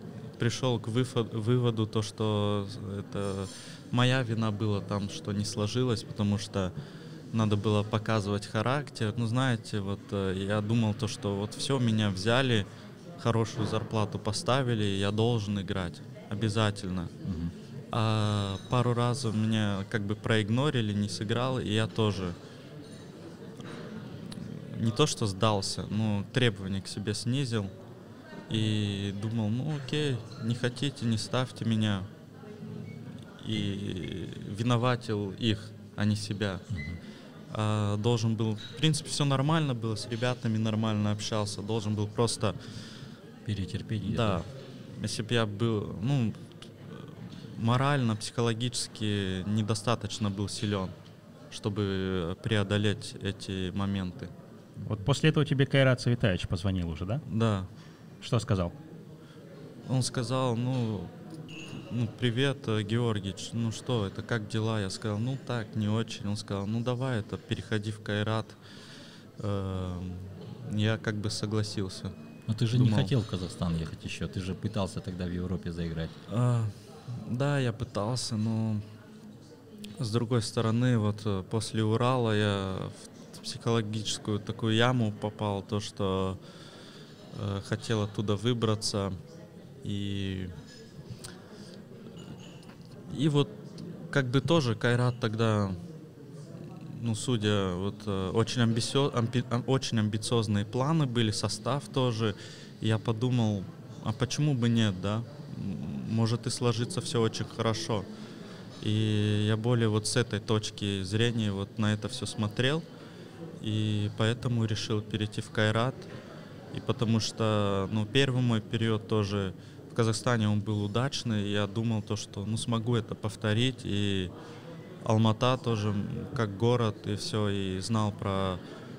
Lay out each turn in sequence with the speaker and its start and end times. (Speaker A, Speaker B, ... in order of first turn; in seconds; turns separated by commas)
Speaker A: 0.4-6.7, Speaker A: 7.3-12.7, Speaker A: 13.2-17.1, Speaker B: 17.2-17.5, Speaker A: 17.9-22.4, Speaker A: 24.3-27.7, Speaker A: 28.5-32.1, Speaker A: 33.4-36.6, Speaker B: 36.7-37.0, Speaker A: 37.5-42.6, Speaker B: 43.5-44.4, Speaker A: 44.0-51.0, Speaker A: 51.5-54.3, Speaker C: 54.9-57.2, Speaker A: 57.2-57.7, Speaker C: 58.2-58.7, Speaker A: 59.9-61.1, Speaker A: 61.9-68.6, Speaker A: 69.4-72.1, Speaker B: 72.5-76.1, Speaker A: 72.7-73.1, Speaker A: 76.3-78.8, Speaker A: 80.0-86.4, Speaker A: 87.3-89.2, Speaker A: 89.8-90.5, Speaker A: 93.1-95.8, Speaker A: 96.9-108.1, Speaker A: 108.8-112.9, Speaker A: 113.6-116.1, Speaker A: 116.7-124.3, Speaker A: 125.0-128.6